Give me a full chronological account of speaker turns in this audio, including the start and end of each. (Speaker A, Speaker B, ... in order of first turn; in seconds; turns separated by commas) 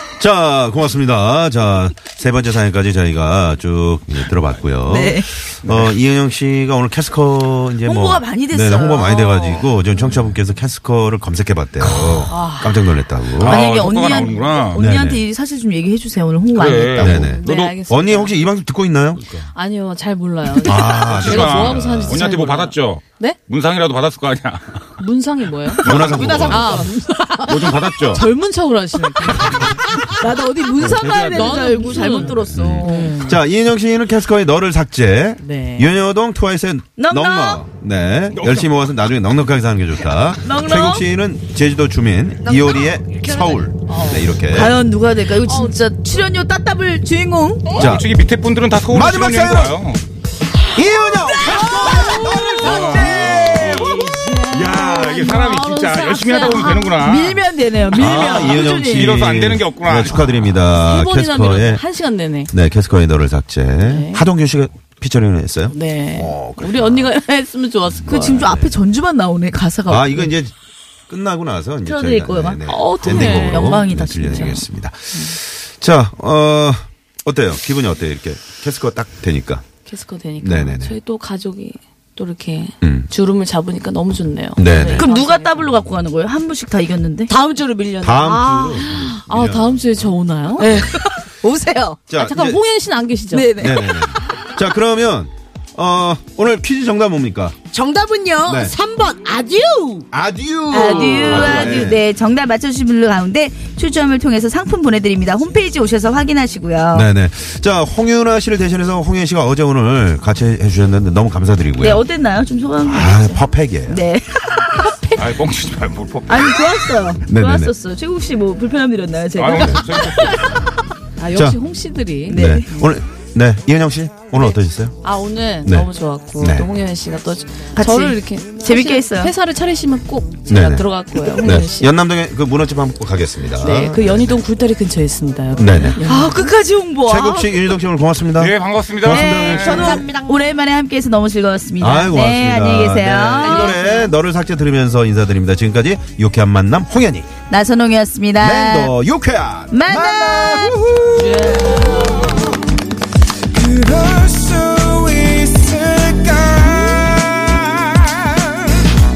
Speaker A: 0.2-13.8, Speaker B: 4.9-5.3, Speaker C: 5.6-6.0, Speaker B: 7.8-9.7, Speaker B: 11.8-12.3, Speaker D: 12.3-12.8, Speaker C: 13.4-14.8, Speaker B: 13.4-17.2, Speaker A: 14.8-15.2, Speaker C: 16.5-17.2, Speaker A: 17.0-19.5, Speaker D: 17.1-18.4, Speaker D: 19.5-23.4, Speaker A: 20.6-22.3, Speaker C: 20.9-24.9, Speaker D: 25.0-25.9, Speaker A: 25.8-26.9, Speaker E: 25.8-26.9, Speaker C: 25.8-26.5, Speaker D: 26.5-29.9, Speaker C: 27.4-28.2, Speaker B: 30.2-33.2, Speaker C: 30.8-32.4, Speaker D: 31.2-33.4, Speaker A: 32.5-44.8, Speaker D: 35.4-35.9, Speaker B: 37.0-37.6, Speaker C: 38.3-38.7, Speaker B: 40.4-41.0, Speaker E: 42.4-43.7, Speaker D: 43.9-44.3, Speaker B: 44.4-47.8, Speaker D: 45.5-45.8, Speaker A: 47.7-48.1, Speaker C: 47.7-50.0, Speaker A: 48.9-49.8, Speaker A: 50.7-54.0, Speaker B: 51.5-54.4, Speaker E: 51.9-52.5, Speaker C: 52.6-60.6, Speaker D: 54.7-57.0, Speaker B: 56.9-59.1, Speaker A: 57.9-61.8, Speaker D: 60.8-62.5, Speaker A: 62.5-67.1, Speaker D: 63.8-64.2, Speaker D: 65.7-68.4, Speaker A: 68.0-68.8, Speaker B: 68.1-70.2, Speaker A: 69.9-70.5, Speaker A: 71.1-79.6, Speaker B: 71.9-74.6, Speaker D: 72.7-73.8, Speaker D: 75.1-75.4, Speaker D: 79.9-85.7, Speaker A: 80.4-81.0, Speaker A: 82.8-83.1, Speaker A: 84.6-85.1, Speaker B: 84.6-87.3, Speaker E: 87.3-88.4, Speaker A: 88.0-89.9, Speaker D: 88.3-90.7, Speaker B: 90.6-92.0, Speaker E: 90.6-90.9, Speaker A: 90.7-90.9, Speaker A: 92.1-92.6, Speaker D: 92.2-93.6, Speaker B: 93.3-94.3, Speaker A: 93.6-97.6, Speaker E: 97.7-100.0, Speaker A: 98.5-98.7, Speaker A: 100.1-102.0, Speaker B: 100.7-107.1, Speaker C: 101.1-101.9, Speaker A: 106.9-112.0, Speaker B: 111.8-115.1, Speaker A: 112.8-114.0, Speaker C: 115.1-116.6, Speaker B: 116.3-120.7, Speaker A: 117.3-117.7, Speaker C: 119.3-120.5, Speaker D: 121.2-122.8, Speaker A: 121.3-121.6, Speaker B: 122.3-122.8, Speaker A: 122.3-125.0, Speaker D: 125.0-131.9, Speaker A: 125.6-126.7, Speaker B: 127.8-129.3, Speaker A: 130.5-134.2, Speaker D: 133.6-136.5, Speaker A: 135.6-136.0, Speaker B: 136.0-137.6, Speaker A: 137.1-140.1, Speaker C: 138.4-139.9, Speaker B: 139.0-143.9, Speaker E: 139.3-140.5, Speaker A: 141.8-147.3, Speaker D: 143.4-144.1, Speaker B: 147.5-148.9, Speaker A: 148.4-151.5, Speaker B: 149.7-150.8, Speaker B: 151.4-152.2, Speaker C: 155.3-156.6